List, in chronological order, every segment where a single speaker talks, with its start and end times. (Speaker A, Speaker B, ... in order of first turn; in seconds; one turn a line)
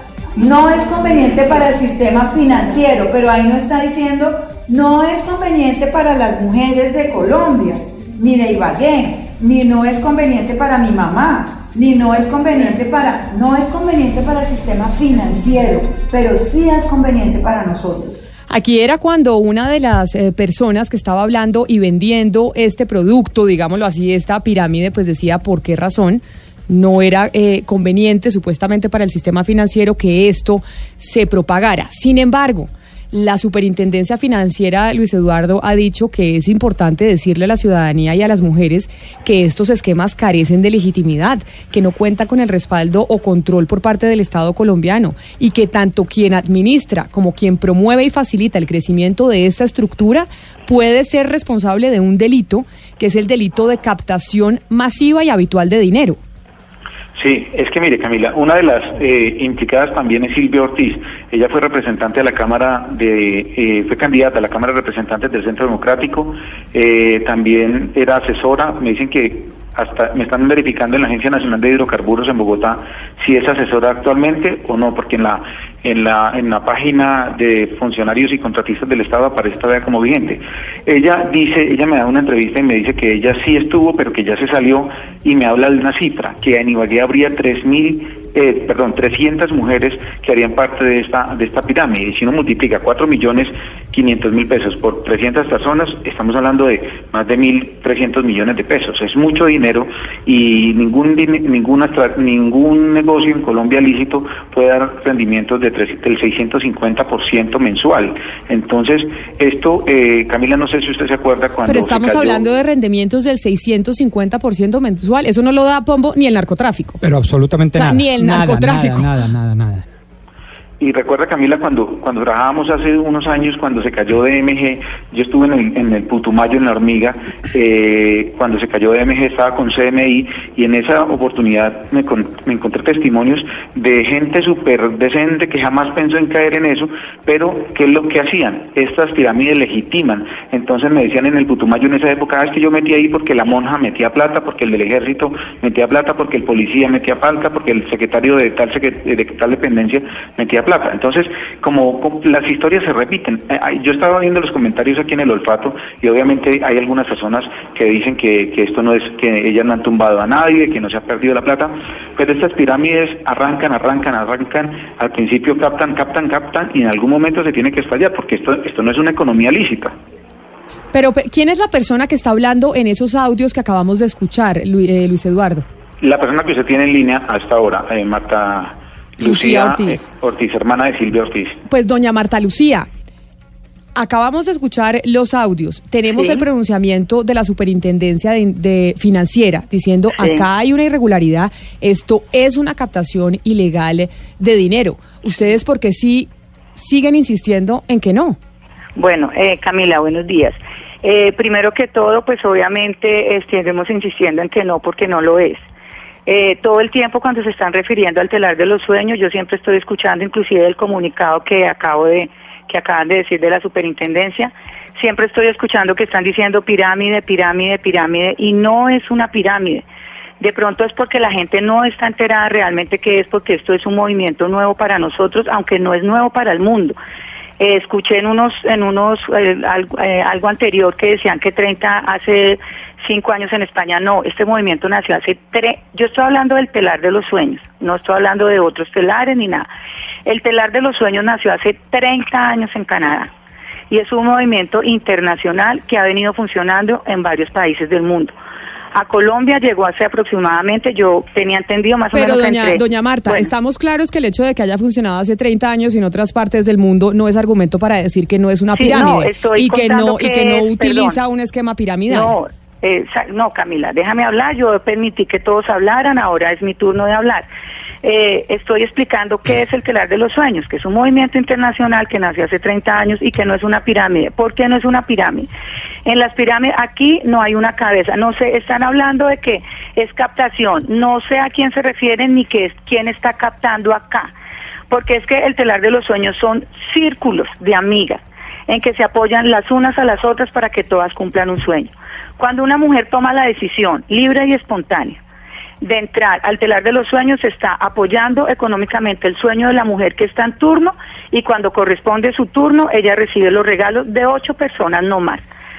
Speaker A: 0.3-18.2
Speaker B: 18.5-56.2
Speaker C: 57.2-112.5
Speaker B: 111.7-117.0
Speaker D: 117.0-119.8
Speaker B: 117.8-119.1
Speaker C: 120.8-169.9
Speaker B: 170.9-175.7
Speaker C: 176.0-181.6
Speaker B: 179.2-180.1
Speaker B: 181.7-182.9
Speaker B: 183.9-198.4
Speaker E: 186.1-186.4
Speaker E: 190.2-190.5
Speaker E: 199.0-205.6
Speaker E: 206.3-219.8
Speaker E: 220.4-227.0
Speaker E: 227.6-239.7
Speaker E: 240.3-243.3
Speaker E: 243.9-248.3
Speaker E: 248.9-253.5
Speaker B: 252.1-262.3
Speaker E: 258.8-261.2
Speaker E: 262.1-267.5
Speaker E: 268.0-275.5
Speaker E: 276.1-284.3
Speaker E: 284.9-295.2
Speaker E: 295.8-305.4